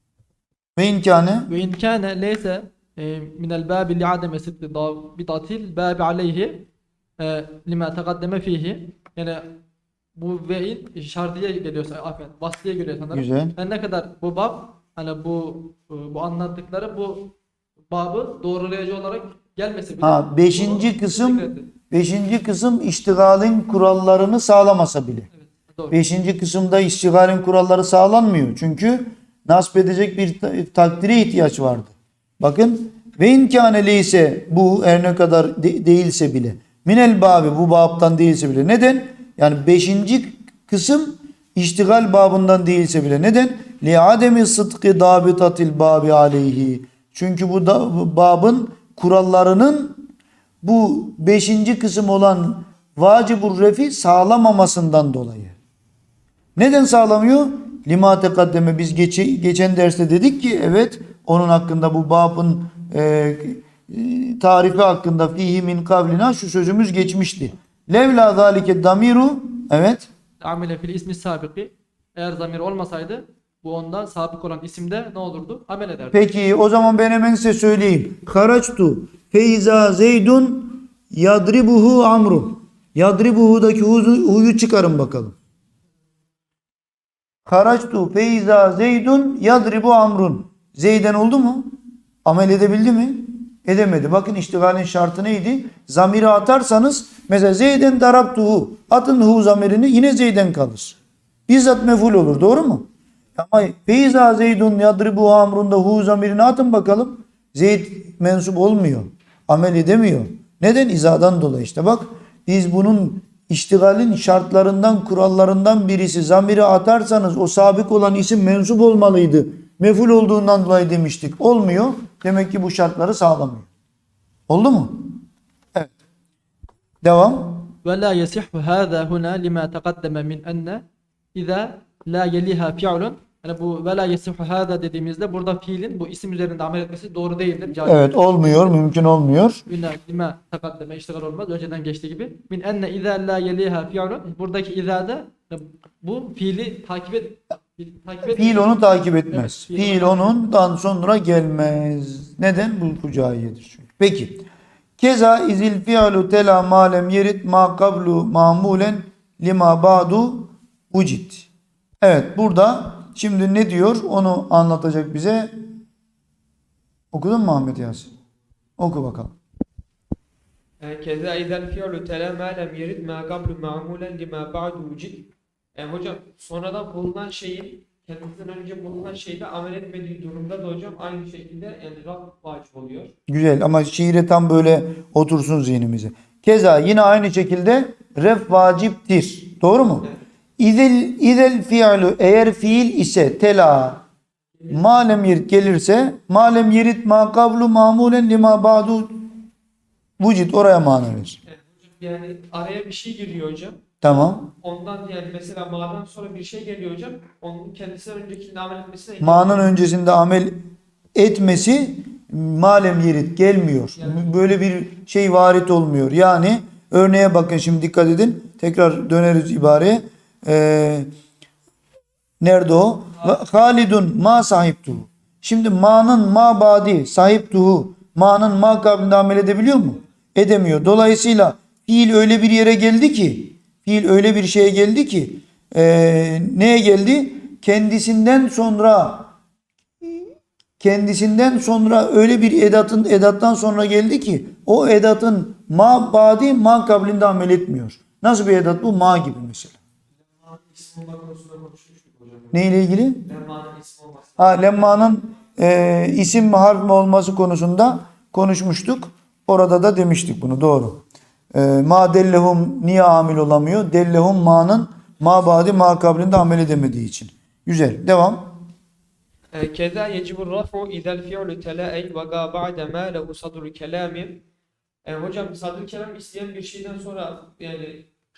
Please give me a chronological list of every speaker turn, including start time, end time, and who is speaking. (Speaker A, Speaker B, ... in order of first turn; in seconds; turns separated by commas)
Speaker A: 0.8-1.5, Speaker B: 1.5-6.7, Speaker B: 7.2-9.6, Speaker B: 10.2-17.4, Speaker A: 13.1-13.6, Speaker B: 17.9-21.7, Speaker A: 20.0-25.3, Speaker B: 25.7-25.9, Speaker A: 25.9-50.1, Speaker A: 50.6-55.5, Speaker A: 56.6-70.1, Speaker B: 70.4-76.3, Speaker A: 76.1-85.3, Speaker A: 87.5-123.7, Speaker A: 124.5-125.2, Speaker A: 127.0-127.7, Speaker B: 127.8-130.8, Speaker B: 131.3-138.7, Speaker A: 137.8-139.6, Speaker B: 139.7-148.8, Speaker A: 148.3-154.4, Speaker B: 149.3-150.3, Speaker A: 155.0-161.5, Speaker A: 162.0-165.6, Speaker A: 167.1-168.1, Speaker A: 168.8-169.3, Speaker C: 170.8-183.1, Speaker A: 183.3-194.0, Speaker A: 194.7-199.4, Speaker A: 200.2-201.4, Speaker C: 201.5-209.7, Speaker A: 204.0-204.5, Speaker A: 209.2-221.1, Speaker C: 214.0-214.3, Speaker A: 222.4-239.3, Speaker A: 240.0-249.8, Speaker C: 250.4-252.6, Speaker A: 252.5-253.3, Speaker C: 253.2-254.5, Speaker A: 254.4-268.6, Speaker C: 269.5-274.4, Speaker C: 275.1-278.1